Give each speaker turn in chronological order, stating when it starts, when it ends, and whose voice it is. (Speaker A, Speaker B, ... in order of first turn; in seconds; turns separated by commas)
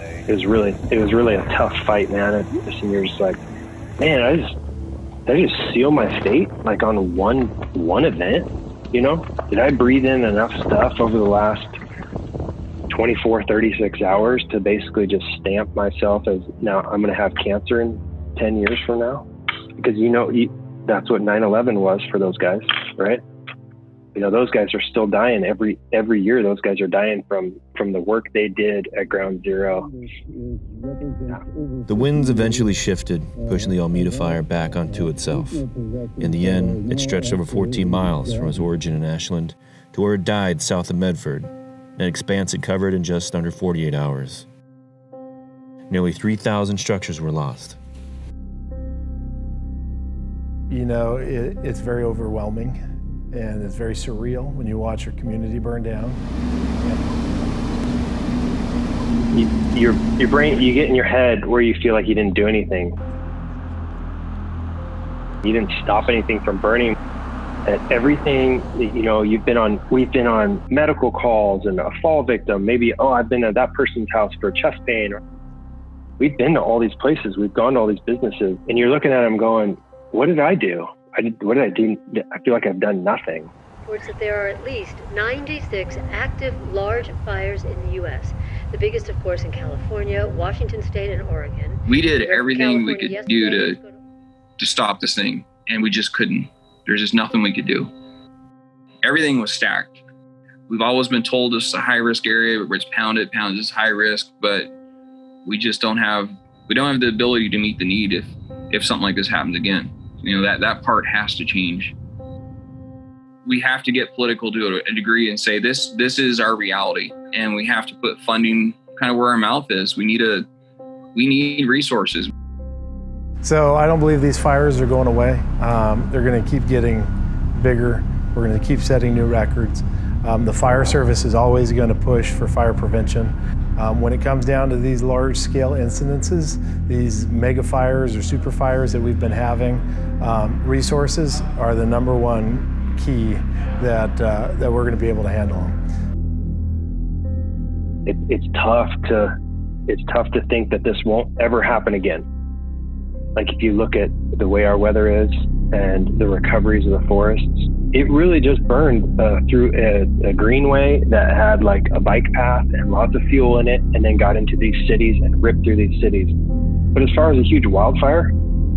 Speaker A: 0.3-3.4, Speaker A: 4.0-4.5, Speaker A: 5.3-11.8, Speaker A: 12.9-19.3, Speaker A: 19.8-23.2, Speaker A: 24.1-29.9, Speaker B: 31.9-44.5, Speaker B: 45.9-47.8, Speaker C: 50.7-52.8, Speaker C: 53.3-56.2, Speaker A: 59.3-63.0, Speaker A: 65.4-67.0, Speaker A: 67.7-75.2, Speaker A: 76.2-83.5, Speaker D: 83.9-94.0, Speaker E: 91.9-93.8, Speaker E: 94.6-97.9, Speaker E: 99.0-100.0, Speaker E: 100.7-104.7, Speaker E: 105.5-111.9, Speaker E: 113.5-120.5, Speaker E: 121.2-122.3, Speaker C: 123.4-145.8, Speaker A: 148.1-149.3, Speaker A: 149.9-152.2, Speaker A: 153.4-166.3, Speaker A: 166.9-168.3